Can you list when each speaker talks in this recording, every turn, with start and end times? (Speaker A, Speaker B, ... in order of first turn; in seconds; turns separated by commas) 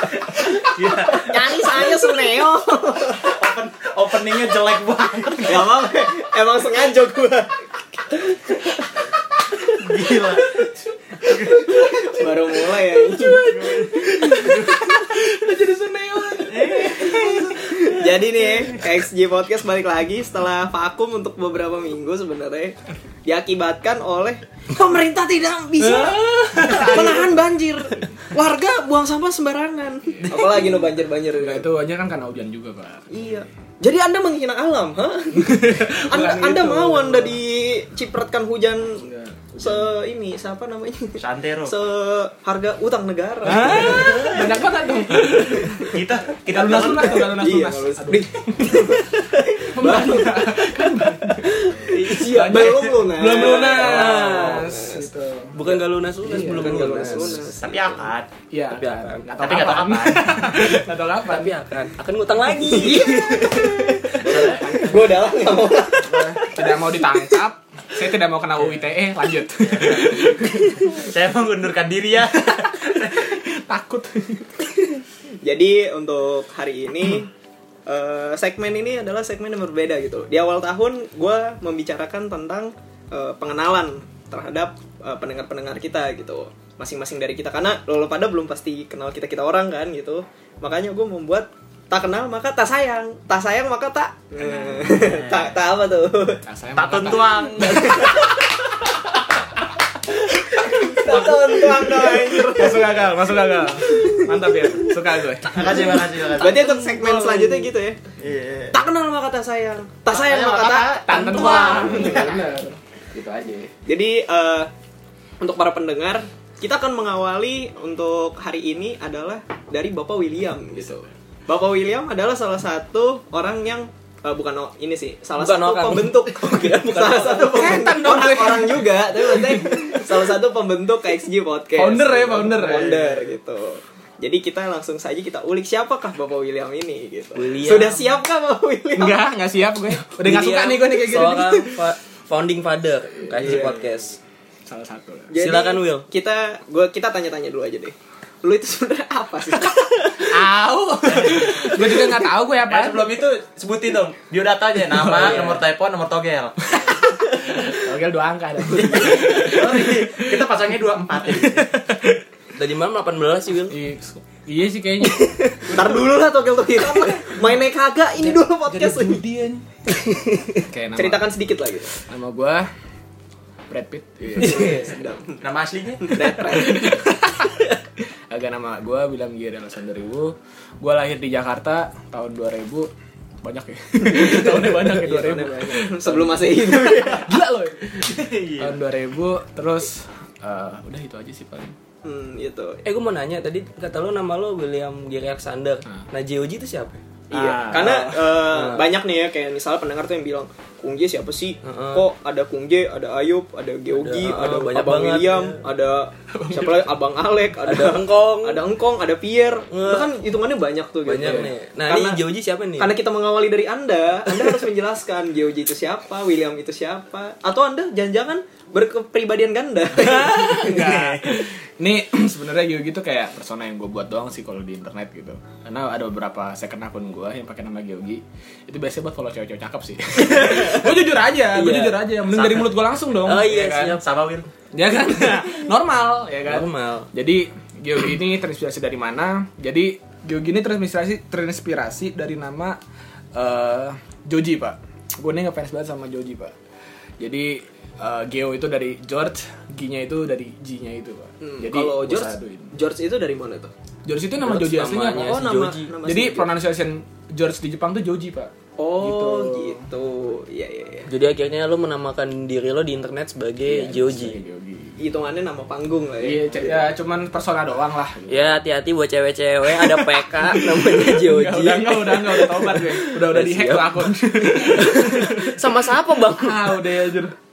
Speaker A: 0.3-2.0, Speaker B: 1.1-3.2, Speaker A: 3.1-5.7, Speaker B: 5.5-8.7, Speaker A: 9.6-10.7, Speaker B: 11.3-14.8, Speaker A: 11.3-11.7, Speaker C: 12.6-18.0, Speaker A: 13.5-14.1, Speaker A: 16.5-17.5, Speaker B: 17.6-31.6, Speaker C: 25.8-27.4, Speaker A: 26.6-26.9, Speaker C: 30.1-33.1, Speaker B: 33.1-44.6, Speaker C: 35.3-37.4, Speaker C: 39.0-39.9, Speaker A: 41.2-41.8, Speaker C: 43.4-45.9, Speaker D: 43.9-44.4, Speaker B: 45.2-46.0, Speaker A: 45.8-47.3, Speaker C: 46.5-49.0, Speaker B: 46.5-55.1, Speaker C: 49.6-55.6, Speaker D: 49.8-50.2, Speaker D: 53.3-54.7, Speaker D: 55.5-57.5, Speaker B: 55.6-58.1, Speaker C: 56.2-57.3, Speaker A: 57.5-58.3, Speaker C: 58.5-61.5, Speaker D: 58.7-59.3, Speaker A: 59.4-60.8, Speaker D: 61.2-64.9, Speaker C: 62.6-63.2, Speaker B: 62.7-67.3, Speaker C: 64.2-65.3, Speaker C: 65.9-70.9, Speaker A: 69.6-73.3, Speaker C: 73.1-74.6, Speaker B: 75.4-77.3, Speaker B: 77.9-96.4, Speaker C: 94.4-95.5, Speaker C: 96.4-98.6, Speaker A: 96.8-98.3, Speaker B: 97.6-98.4, Speaker C: 100.4-105.7, Speaker B: 100.6-103.0, Speaker B: 103.8-105.0, Speaker A: 105.4-106.7, Speaker B: 105.7-108.0, Speaker D: 106.4-107.7, Speaker A: 108.2-108.8, Speaker B: 108.7-111.0, Speaker A: 110.1-112.4, Speaker C: 111.0-113.7, Speaker D: 111.1-112.1, Speaker B: 113.9-114.7, Speaker B: 115.4-139.2, Speaker C: 120.8-121.1, Speaker D: 125.4-127.7, Speaker C: 127.4-130.2, Speaker C: 131.8-133.2, Speaker D: 137.3-138.2, Speaker C: 139.0-141.8, Speaker D: 140.2-144.2, Speaker C: 143.3-143.9, Speaker B: 143.4-143.8, Speaker C: 144.7-145.3, Speaker B: 145.3-149.8, Speaker D: 145.4-146.1, Speaker C: 149.6-153.2, Speaker A: 151.1-151.9, Speaker A: 152.6-156.7, Speaker C: 154.9-155.6, Speaker C: 156.7-160.4, Speaker A: 158.7-161.7, Speaker C: 161.1-162.2, Speaker D: 162.6-163.8, Speaker C: 163.7-165.7, Speaker D: 165.0-165.7, Speaker B: 165.7-169.2, Speaker C: 168.2-169.7, Speaker D: 170.1-170.6, Speaker C: 170.7-171.3, Speaker B: 171.0-172.0, Speaker C: 171.9-172.7, Speaker C: 173.7-174.9, Speaker D: 174.4-174.9, Speaker B: 174.4-175.4, Speaker A: 175.4-176.3, Speaker B: 176.0-177.1, Speaker C: 176.5-182.9, Speaker C: 183.4-191.8, Speaker B: 184.1-187.3, Speaker A: 188.0-188.8, Speaker B: 192.1-192.8, Speaker D: 192.8-197.0, Speaker B: 197.3-212.2, Speaker C: 197.3-198.4, Speaker D: 198.5-198.8, Speaker D: 201.6-202.0, Speaker D: 203.9-205.6, Speaker C: 206.3-206.9, Speaker D: 207.7-208.7, Speaker D: 209.7-210.1, Speaker D: 211.1-213.0, Speaker C: 211.2-211.5, Speaker B: 212.8-220.8, Speaker C: 219.9-234.0, Speaker A: 220.6-221.5, Speaker D: 230.2-231.0, Speaker D: 231.5-232.0, Speaker A: 232.3-232.8, Speaker D: 233.2-234.0, Speaker A: 233.9-234.5, Speaker C: 234.7-242.8, Speaker D: 236.5-237.1, Speaker C: 243.3-246.6, Speaker C: 247.2-252.7, Speaker B: 251.4-253.7, Speaker C: 254.0-259.9, Speaker D: 254.4-255.9, Speaker B: 255.2-256.5, Speaker B: 258.8-261.1, Speaker D: 261.1-264.4, Speaker C: 263.6-265.0, Speaker B: 265.0-266.9, Speaker C: 266.2-268.6, Speaker D: 268.3-276.8, Speaker C: 269.7-277.3